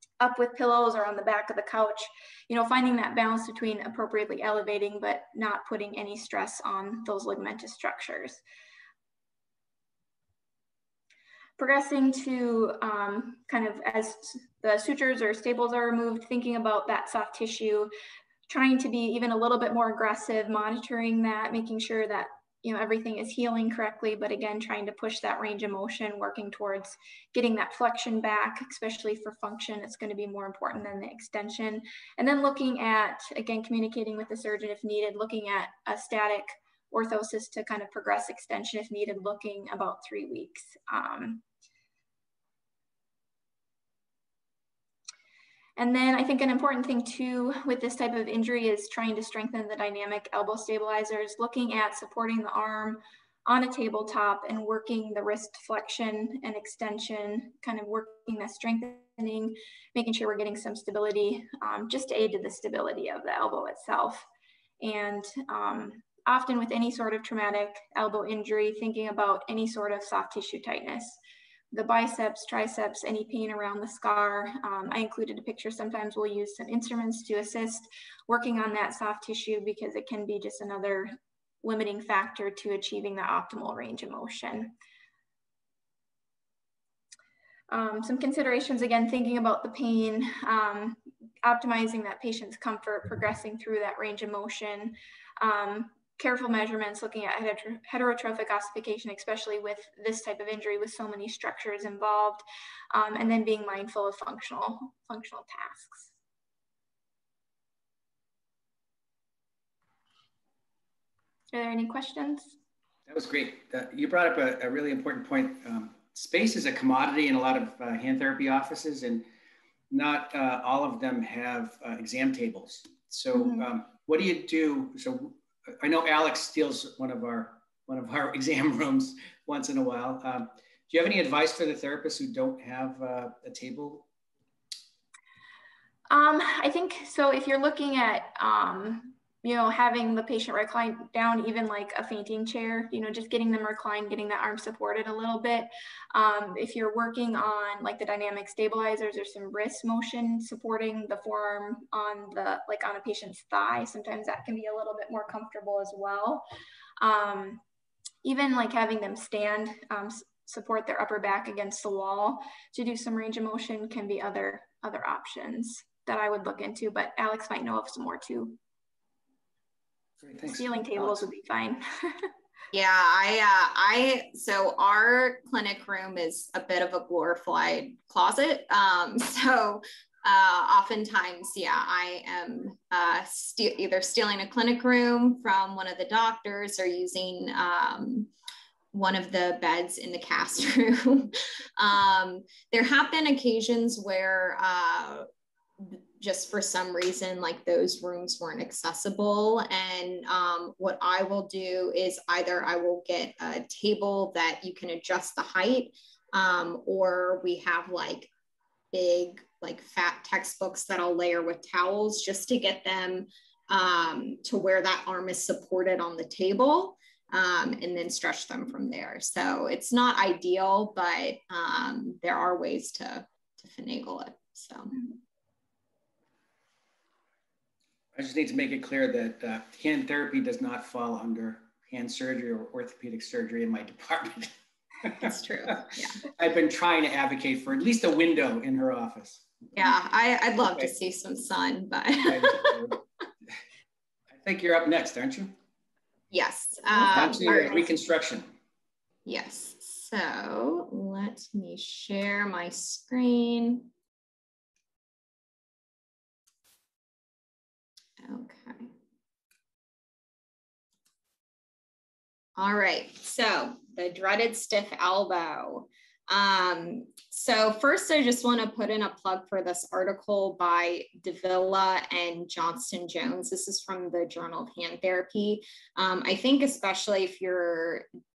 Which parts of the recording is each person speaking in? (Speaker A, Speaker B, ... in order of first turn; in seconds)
Speaker A: 0.2-8.4, 11.6-17.9, 18.5-41.4, 45.8-64.3, 64.8-71.2, 71.7-84.7, 87.7-106.1, 111.5-112.5, 123.3-123.7, 136.1-156.4, 157.0-157.6, 158.2-168.6, 170.5-171.8
Speaker B: 113.1-119.3, 119.9-134.1, 170.2-171.3, 228.2-234.5, 235.1-239.5, 242.3-243.0, 244.3-245.6, 247.0-248.5
Speaker C: 172.7-188.3, 188.9-195.3, 195.8-208.3, 208.9-224.9, 235.2-236.2, 239.8-242.8, 246.3-247.9, 249.3-253.9, 258.2-258.9, 262.6-278.1